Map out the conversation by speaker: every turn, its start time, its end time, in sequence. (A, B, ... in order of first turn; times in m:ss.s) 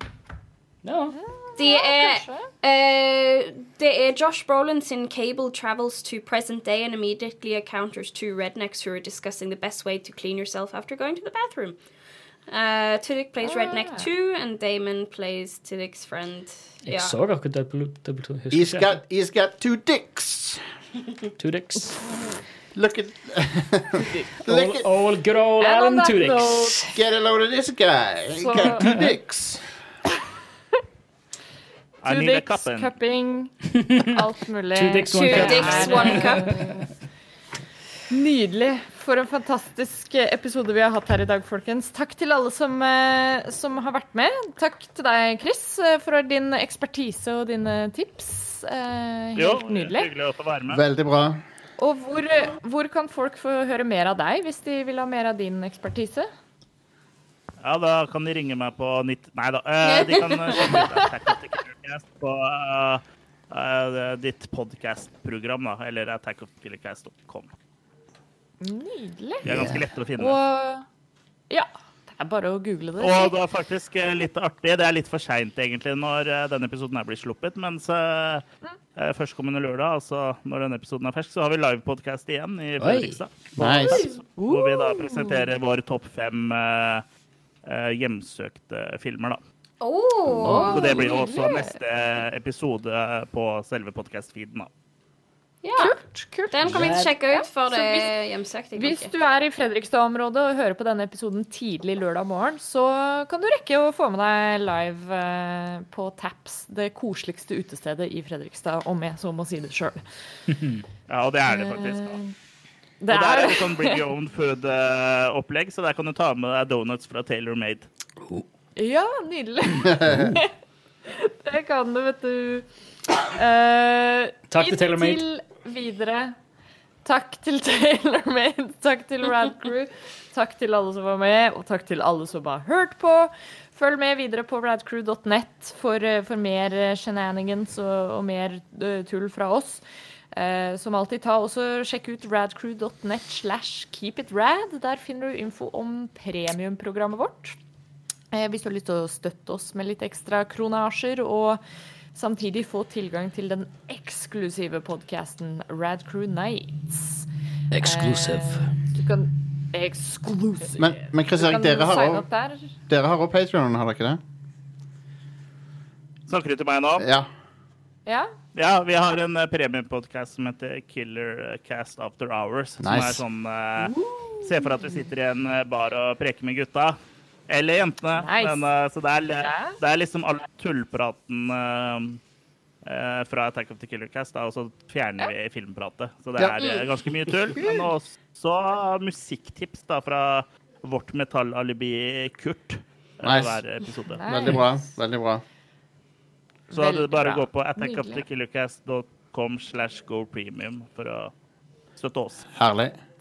0:00.8-0:01.2 A
0:01.1-0:02.5 B
0:01.6-0:11.8 C
0:12.5-0:17.1 C
0:13.4-0:14.1 B
0:16.8-0:18.9 A
0:18.5-0:20.6 D
0:21.4-0:22.0 A
0:22.7-0:24.8 D
0:24.0-0:24.3 B
0:24.4-0:26.9 A
0:25.6-0:26.9 B
0:26.9-0:29.7 D
0:28.3-0:28.9 B
0:32.0-0:32.9 E
0:32.0-0:36.8 B
0:33.7-0:34.2 A
0:34.7-0:36.7 A
0:35.1-0:36.6 C
0:38.1-0:50.1 B
0:49.4-0:50.8 E
0:50.7-0:51.4 D
0:51.8-0:56.3 B
0:57.6-1:07.5 E
0:59.8-1:00.9 C
1:08.6-1:10.8 B
1:09.4-1:10.4 E
1:09.4-1:09.8 A
1:11.5-1:13.4 B
1:13.0-1:27.0 E
1:22.8-1:23.2 A
1:23.6-1:24.0 D
1:23.8-1:25.5 B
1:27.6-1:29.4 E
1:29.8-1:31.2 C
1:30.4-1:34.7 E
1:30.4-1:31.8 B
1:35.6-1:36.0 C
1:35.8-1:38.1 B
1:36.5-1:39.1 C
1:36.6-1:37.1 A
1:38.8-1:50.0 B
1:50.5-1:50.8 A
1:51.1-1:52.2 E
1:51.5-1:52.3 B
1:53.0-1:54.0 B
1:53.1-1:57.9 E
1:58.8-2:00.5 B
1:59.8-2:00.4 D
2:01.1-2:02.6 B
2:03.2-2:06.4 B
2:04.5-2:05.2 A
2:07.0-2:19.8 B
2:20.3-2:27.6 B
2:28.3-2:31.6 B
2:32.1-2:37.3 B
2:37.7-2:38.7 A
2:37.8-2:42.7 B
2:40.8-2:42.2 D
2:42.9-2:44.2 D
2:46.3-2:47.1 E
2:47.0-2:47.3 D
2:48.0-2:48.3 B
2:48.5-3:02.2 E
2:52.8-2:53.2 D
2:53.8-2:55.1 B
2:58.1-2:58.6 B
2:59.4-2:59.8 B
3:02.8-3:14.4 E
3:06.6-3:06.9 C
3:13.2-3:13.6 D
3:14.1-3:14.8 B
3:14.2-3:15.4 D
3:16.7-3:21.3 E
3:16.7-3:18.2 B
3:22.0-3:22.5 E
3:22.6-3:23.0 D